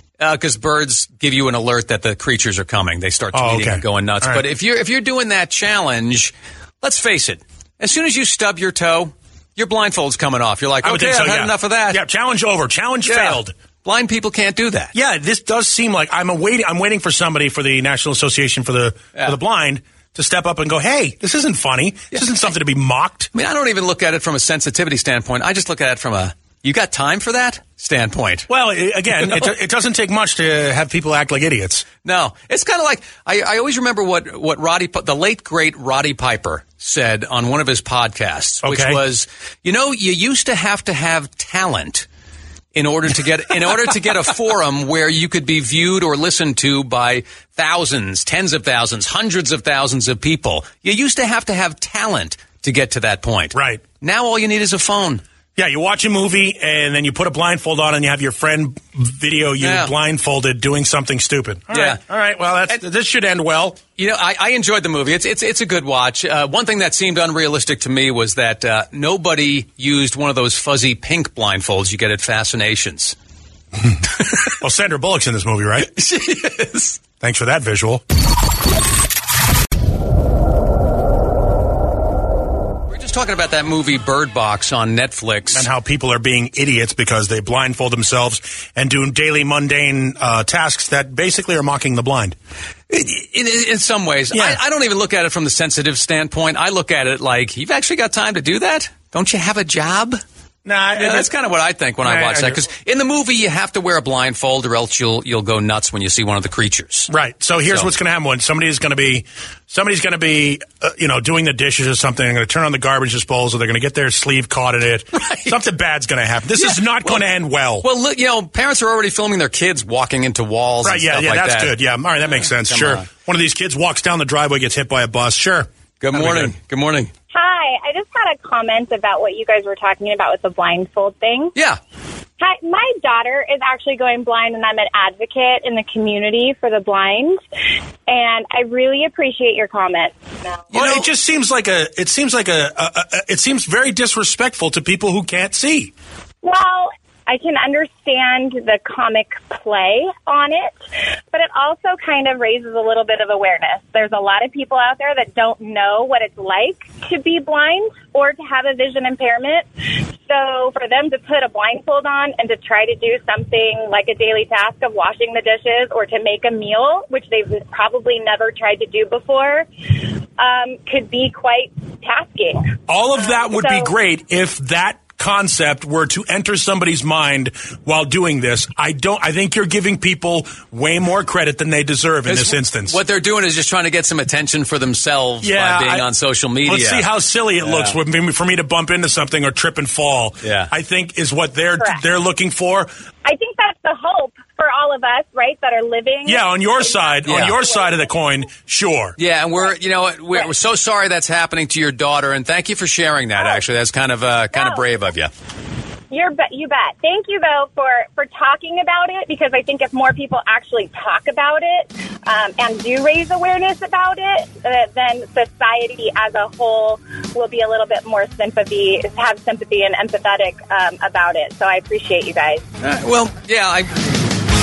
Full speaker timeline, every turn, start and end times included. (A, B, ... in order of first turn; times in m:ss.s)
0:00.2-0:12.0 A
0:03.3-0:04.4 B
0:10.8-0:13.5 B
0:13.0-0:14.9 A
0:14.9-0:23.3 B
0:23.3-0:28.5 A
0:28.5-0:31.9 B
0:29.1-0:29.5 A
0:32.0-0:42.1 A
0:38.6-0:39.0 B
0:42.7-0:55.2 A
0:53.5-0:53.8 B
0:55.6-1:03.8 B
0:59.6-0:59.9 A
1:01.7-1:02.0 A
1:04.0-1:13.2 A
1:13.9-1:15.9 B
1:15.8-1:17.0 A
1:17.2-1:18.0 B
1:22.9-1:25.7 A
1:25.5-1:32.4 B
1:32.9-1:40.2 A
1:34.3-1:34.6 B
1:40.6-1:41.3 B
1:41.0-1:47.1 A
1:42.0-1:42.6 B
1:47.1-1:57.9 B
1:55.2-1:55.6 A
1:56.6-1:57.3 A
1:57.8-2:01.7 A
2:00.8-2:06.5 B
2:02.4-2:03.1 A
2:06.0-2:07.1 A
2:07.3-2:11.5 C
2:12.4-2:17.4 C
2:18.1-2:20.2 C
2:20.7-2:21.1 A
2:20.7-2:25.9 B
2:26.4-2:30.8 C
2:31.3-2:39.7 C
2:40.3-2:49.7 C
2:50.4-2:52.8 C
2:52.9-3:03.0 B
2:53.3-2:53.9 C
3:02.3-3:07.1 A
3:05.4-3:06.1 B
3:06.6-3:12.9 B
3:07.6-3:08.0 A
3:10.4-3:10.7 A
3:13.2-3:17.9 C
3:16.2-3:19.2 B
3:17.3-3:17.6 A
3:19.2-3:25.3 A
3:24.6-3:24.8 C
3:26.1-3:42.6 C
3:42.8-3:44.1 A